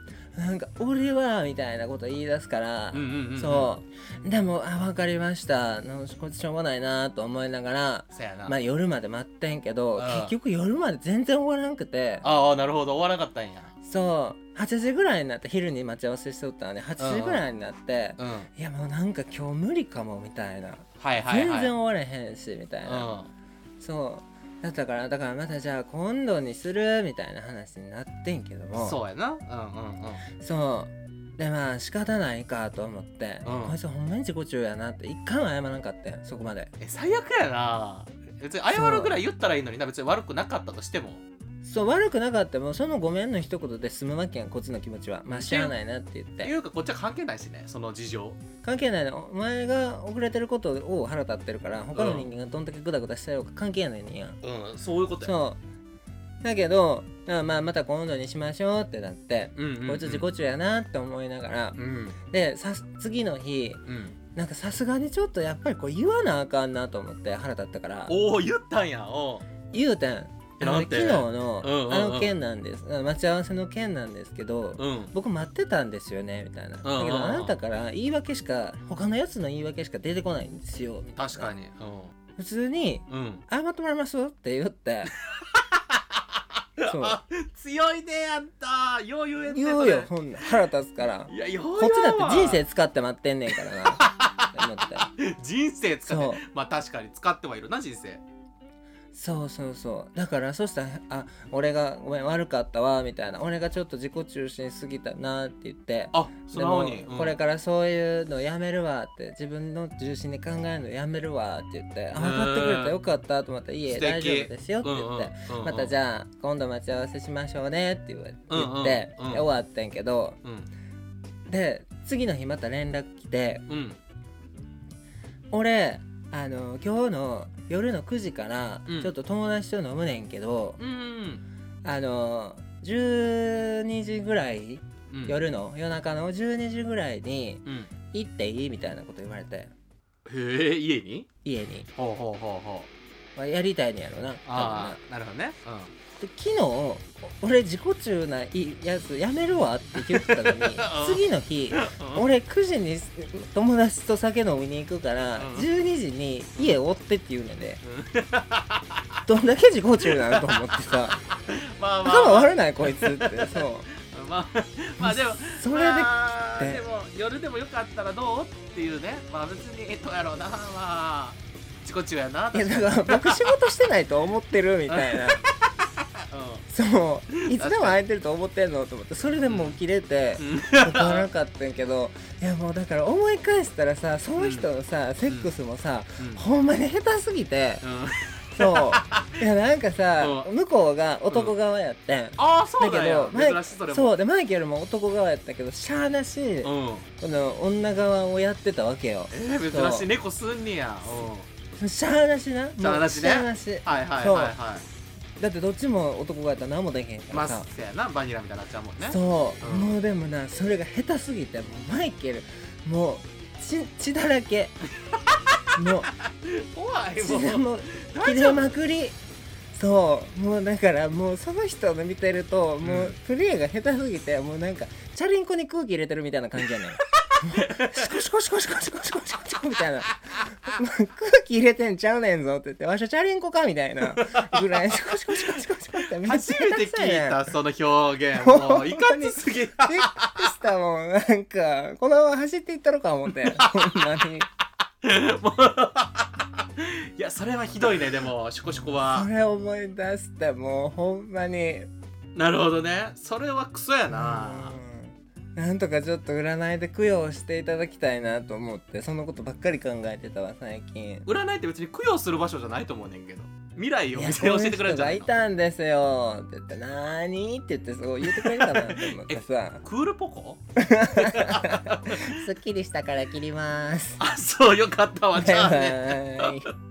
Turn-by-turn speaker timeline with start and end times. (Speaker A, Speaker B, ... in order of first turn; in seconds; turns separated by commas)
Speaker A: 0.3-12.2, Speaker B: 2.9-3.7, Speaker B: 8.1-8.6, Speaker B: 9.9-10.3, Speaker B: 12.2-13.7, Speaker A: 13.8-23.1, Speaker B: 17.0-17.4, Speaker B: 18.2-18.5, Speaker B: 21.0-21.7, Speaker B: 22.8-23.3, Speaker A: 23.8-29.0, Speaker B: 28.7-30.2, Speaker A: 30.4-36.7, Speaker B: 33.4-33.8, Speaker B: 36.8-41.2, Speaker A: 38.7-39.2, Speaker A: 41.6-46.5, Speaker B: 45.3-45.7, Speaker B: 46.4-48.4, Speaker A: 48.6-54.4, Speaker B: 51.9-52.3, Speaker B: 54.4-55.3, Speaker A: 55.2-55.6, Speaker A: 56.4-61.8, Speaker B: 59.5-60.2, Speaker B: 61.8-62.2, Speaker A: 62.3-63.8, Speaker B: 63.9-64.2, Speaker A: 64.3-68.2, Speaker B: 68.1-69.5, Speaker A: 69.7-81.5, Speaker B: 70.6-72.3, Speaker B: 74.8-75.1, Speaker B: 76.8-77.6, Speaker B: 81.2-82.1, Speaker A: 82.4-85.1, Speaker B: 83.1-83.4, Speaker B: 85.4-86.2, Speaker B: 86.8-90.5, Speaker A: 86.8-87.2, Speaker A: 89.5-95.1, Speaker B: 91.3-92.6, Speaker B: 93.6-98.2, Speaker A: 96.0-96.4, Speaker A: 99.1-120.4, Speaker B: 106.1-107.3, Speaker B: 112.1-113.0, Speaker B: 113.9-115.9, Speaker B: 118.5-119.5, Speaker B: 120.4-120.7, Speaker A: 121.5-123.6, Speaker B: 123.7-124.0, Speaker A: 125.5-130.8, Speaker B: 128.9-129.1, Speaker B: 130.8-131.4, Speaker A: 131.8-139.7, Speaker B: 135.1-135.4, Speaker B: 137.6-137.9, Speaker B: 140.2-141.3, Speaker A: 141.4-141.9, Speaker B: 141.9-142.9, Speaker A: 143.3-145.0, Speaker B: 144.4-145.9, Speaker A: 146.2-157.8, Speaker B: 149.9-152.2, Speaker B: 155.3-155.7, Speaker B: 157.8-159.2, Speaker A: 159.2-161.2, Speaker B: 160.0-173.7, Speaker A: 162.0-163.9, Speaker A: 165.0-166.8, Speaker A: 172.5-175.4, Speaker B: 174.9-175.5, Speaker B: 176.3-176.7, Speaker A: 176.7-187.8, Speaker B: 177.5-178.0, Speaker B: 179.5-179.8, Speaker B: 180.4-181.3, Speaker B: 184.4-184.7, Speaker B: 185.2-185.5, Speaker B: 187.8-189.4, Speaker A: 188.6-200.1, Speaker B: 190.2-190.5, Speaker B: 192.4-194.1, Speaker B: 196.6-197.1, Speaker B: 199.3-201.5, Speaker A: 201.8-204.6, Speaker B: 202.8-204.8, Speaker A: 205.4-207.7, Speaker B: 207.3-210.0, Speaker A: 209.0-214.7, Speaker B: 215.3-215.6, Speaker A: 215.7-216.1, Speaker B: 216.3-218.7, Speaker A: 217.2-219.2, Speaker A: 219.7-237.5, Speaker B: 222.8-223.2, Speaker B: 227.4-228.1, Speaker B: 234.1-235.1, Speaker B: 236.1-240.5, Speaker A: 238.3-244.5, Speaker B: 245.0-249.3, Speaker A: 248.7-251.9, Speaker B: 252.3-254.8, Speaker A: 254.1-261.2, Speaker B: 261.2-265.3, Speaker A: 264.1-269.8, Speaker B: 268.2-270.6, Speaker A: 270.8-274.2, Speaker B: 271.1-272.4, Speaker B: 274.2-276.6, Speaker A: 275.3-276.7